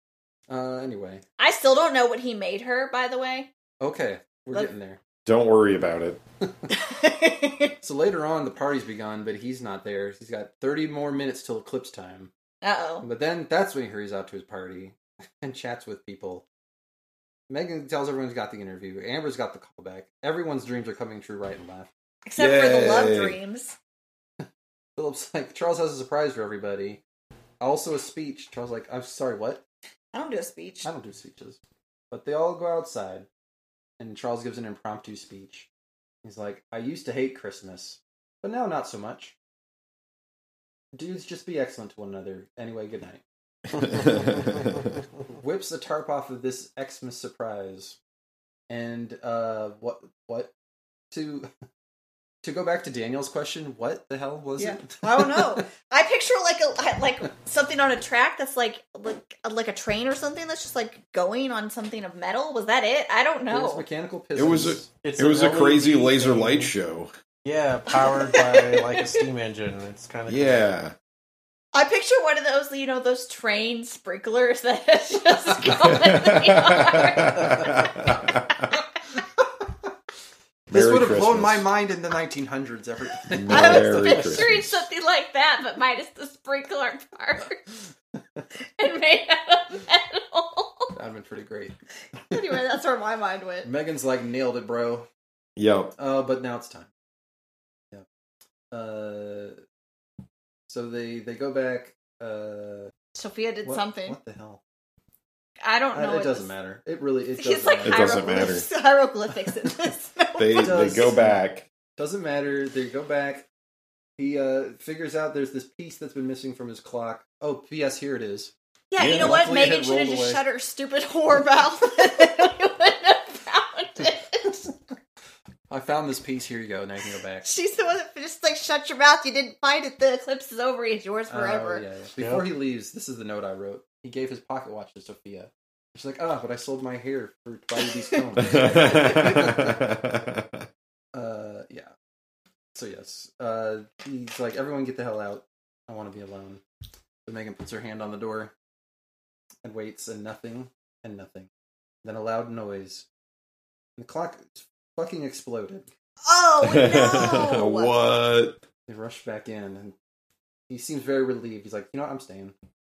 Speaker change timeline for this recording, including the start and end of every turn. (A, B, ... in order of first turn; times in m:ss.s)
0:00.5-0:01.2 A
0:01.4-0:03.5 B
0:03.8-0:05.0 A
0:05.2-0:06.2 C
0:06.8-0:07.7 B
0:07.8-0:12.3 A
0:12.6-0:13.0 B
0:13.0-0:16.4 A
0:17.5-0:21.9 A
0:22.2-0:23.8 B
0:22.4-0:23.4 C
0:24.4-0:27.0 A
0:27.6-0:29.6 A
0:30.1-0:30.9 B
0:30.8-0:31.6 A
0:32.1-0:33.3 A
0:34.0-0:35.7 A
0:36.2-0:39.3 A
0:40.9-0:43.2 A
0:43.8-0:44.1 D
0:43.9-0:44.6 C
0:45.3-0:48.0 A
0:48.7-0:50.5 A
0:51.1-0:51.5 A
0:52.4-0:55.6 A
0:54.6-1:03.8 B
1:03.5-1:04.9 A
1:04.4-1:07.1 C
1:05.0-1:06.7 D
1:07.4-1:10.7 D
1:08.0-1:09.2 B
1:10.3-1:10.9 C
1:11.7-1:18.1 B
1:15.7-1:18.5 C
1:20.7-1:21.7 C
1:20.7-1:24.6 A
1:23.3-1:24.8 C
1:23.5-1:27.6 B
1:28.8-1:30.9 B
1:30.9-1:31.8 A
1:32.3-1:33.7 B
1:33.6-1:35.1 A
1:35.6-1:35.9 C
1:36.0-1:36.9 A
1:38.7-1:39.6 A
1:40.7-1:42.9 A
1:43.1-1:44.2 B
1:43.6-1:44.6 A
1:45.6-1:46.5 B
1:45.9-1:48.5 A
1:47.4-1:51.1 B
1:47.8-1:48.6 C
1:50.4-1:51.6 C
1:50.5-1:51.4 A
1:52.0-1:53.5 A
1:54.2-2:00.4 A
1:58.9-2:04.7 B
1:59.0-1:59.5 C
2:05.7-2:07.5 A
2:07.4-2:11.8 B
2:11.3-2:19.8 A
2:12.2-2:12.4 D
2:18.4-2:20.6 C
2:21.1-2:21.9 A
2:22.7-2:26.6 A
2:27.2-2:28.5 A
2:29.6-2:31.5 A
2:32.0-2:33.0 A
2:34.0-2:35.9 A
2:36.2-2:37.9 B
2:36.6-2:38.6 C
2:38.9-2:39.9 A
2:40.7-2:42.5 A